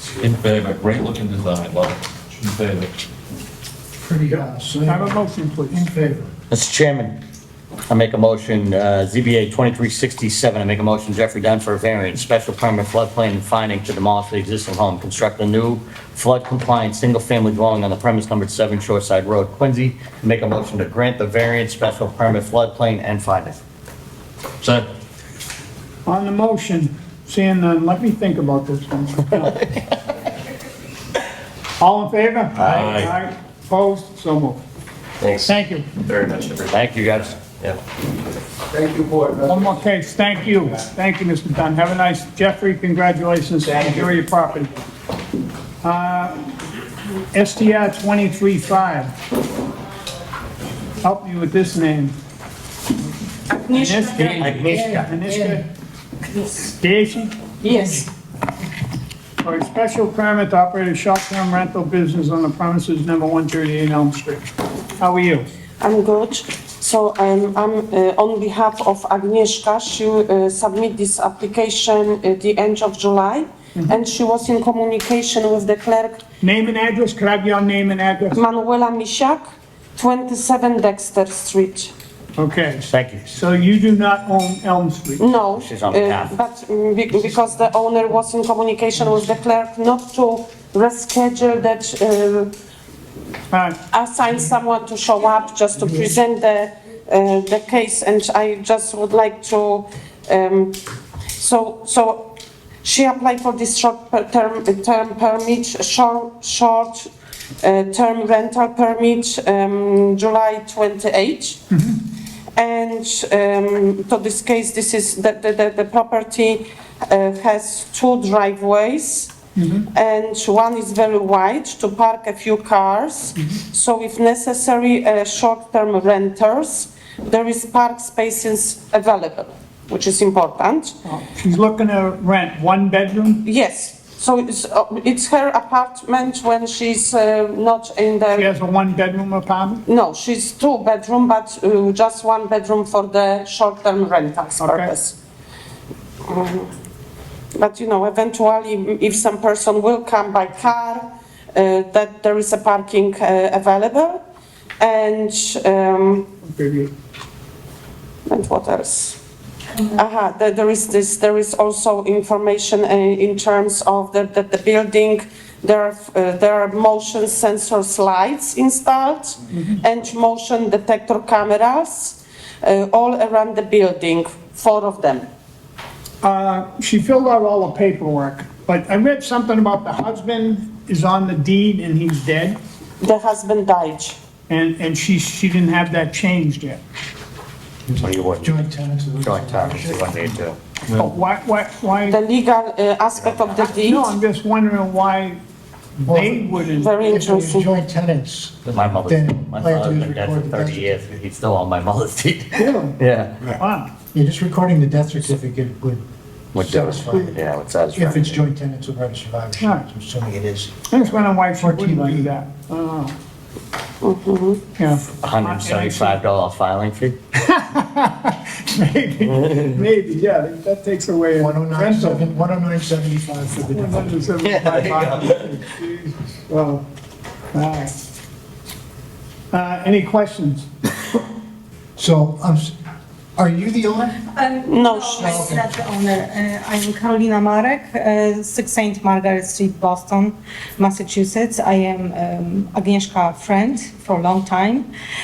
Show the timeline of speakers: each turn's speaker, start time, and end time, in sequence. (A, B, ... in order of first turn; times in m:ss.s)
0:00.2-0:02.9 A
0:04.0-0:06.3 B
0:04.3-0:05.9 C
0:06.5-0:07.2 D
0:07.9-0:23.6 D
0:24.6-0:24.9 D
0:26.0-0:29.6 C
0:29.7-0:29.9 D
0:31.8-0:34.6 C
0:32.6-0:33.0 D
0:32.6-0:33.1 A
0:35.4-0:35.9 C
0:36.1-0:37.1 A
0:36.2-0:37.8 D
0:39.4-0:44.7 C
0:45.8-0:46.4 C
0:47.3-0:49.1 C
0:51.0-0:52.1 C
0:53.5-0:54.4 E
0:53.7-0:55.7 C
0:54.4-0:55.1 D
0:54.7-0:55.6 B
0:56.6-0:57.3 C
0:57.6-0:58.0 E
0:59.4-1:05.5 C
1:05.8-1:16.2 E
1:16.4-1:18.4 C
1:18.3-1:21.9 E
1:22.4-1:25.3 C
1:22.9-1:23.3 D
1:25.2-1:32.5 E
1:25.5-1:26.3 D
1:33.5-1:33.8 C
1:33.9-1:40.8 E
1:41.4-1:47.1 E
1:47.6-1:51.6 E
1:51.7-1:52.0 C
1:52.5-1:59.3 E
1:59.6-1:59.9 C
1:59.9-2:11.0 E
2:11.0-2:13.4 C
2:13.4-2:18.5 E
2:18.3-2:19.8 C
2:19.8-2:25.1 E
2:24.6-2:24.9 C
2:26.2-2:26.7 E
2:27.5-2:34.2 E
2:34.8-2:36.3 E
2:36.4-2:36.9 C
2:38.3-2:39.2 E
2:39.8-2:55.3 E
2:49.5-2:49.8 C
2:56.2-3:02.6 C
3:03.0-3:04.2 E
3:04.5-3:06.8 C
3:07.9-3:10.3 B
3:08.0-3:08.6 D
3:09.2-3:10.6 D
3:10.9-3:12.2 C
3:12.1-3:14.1 E
3:13.2-3:13.7 D
3:13.5-3:15.4 C
3:16.0-3:17.3 C
3:16.0-3:21.1 B
3:16.7-3:17.7 E
3:18.6-3:23.6 D
3:22.5-3:23.0 C
3:23.5-3:23.9 C
3:24.1-3:26.0 B
3:26.5-3:28.4 D
3:26.6-3:27.4 B
3:27.9-3:32.3 B
3:29.6-3:29.9 C
3:30.9-3:33.1 C
3:34.0-3:34.6 E
3:34.8-3:36.2 C
3:35.0-3:37.2 D
3:37.3-3:42.4 C
3:41.4-3:44.4 B
3:43.7-3:46.8 C
3:44.4-3:45.4 D
3:47.5-3:47.9 C
3:49.5-3:50.7 C
3:52.0-3:52.7 B
3:53.4-3:54.2 B
3:54.2-4:04.9 F
3:54.7-3:55.4 E
3:55.1-3:55.6 B